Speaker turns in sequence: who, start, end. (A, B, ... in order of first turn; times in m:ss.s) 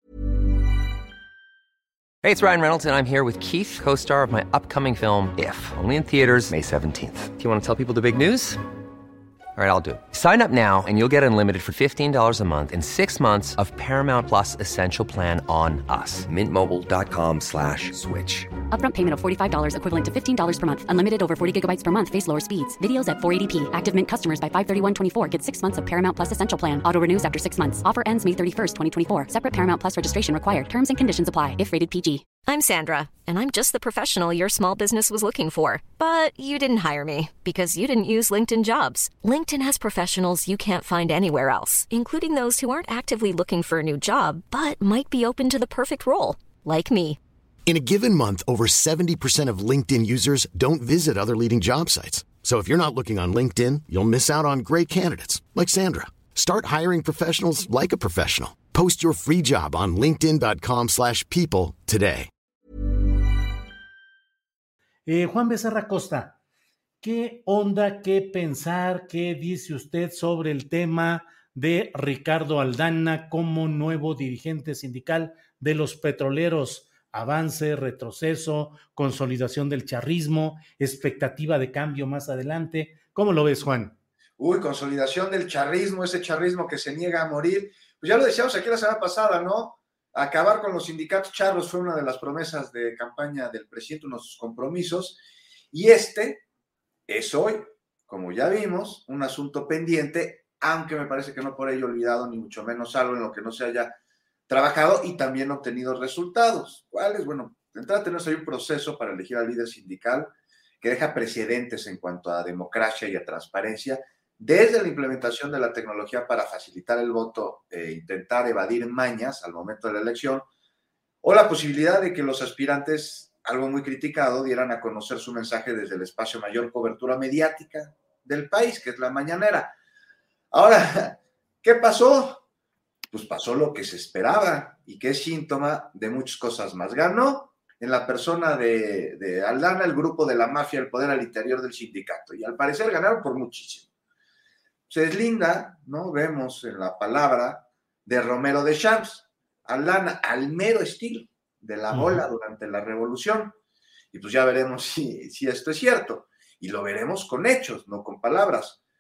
0:02.2-0:08.6 A
0:09.6-0:18.5 A
0:18.7-0:32.3 B
0:32.4-0:47.2 C
0:47.7-1:02.3 D
1:05.1-1:06.4 E
1:07.0-1:24.0 E
1:24.4-1:35.2 F
1:35.7-1:36.4 F
1:37.1-1:43.9 F
1:44.5-2:00.5 F
2:01.2-2:09.7 F
2:10.5-2:12.4 F
2:13.1-2:23.9 F
2:24.9-2:33.6 F
2:31.9-2:32.3 E
2:34.1-2:38.8 F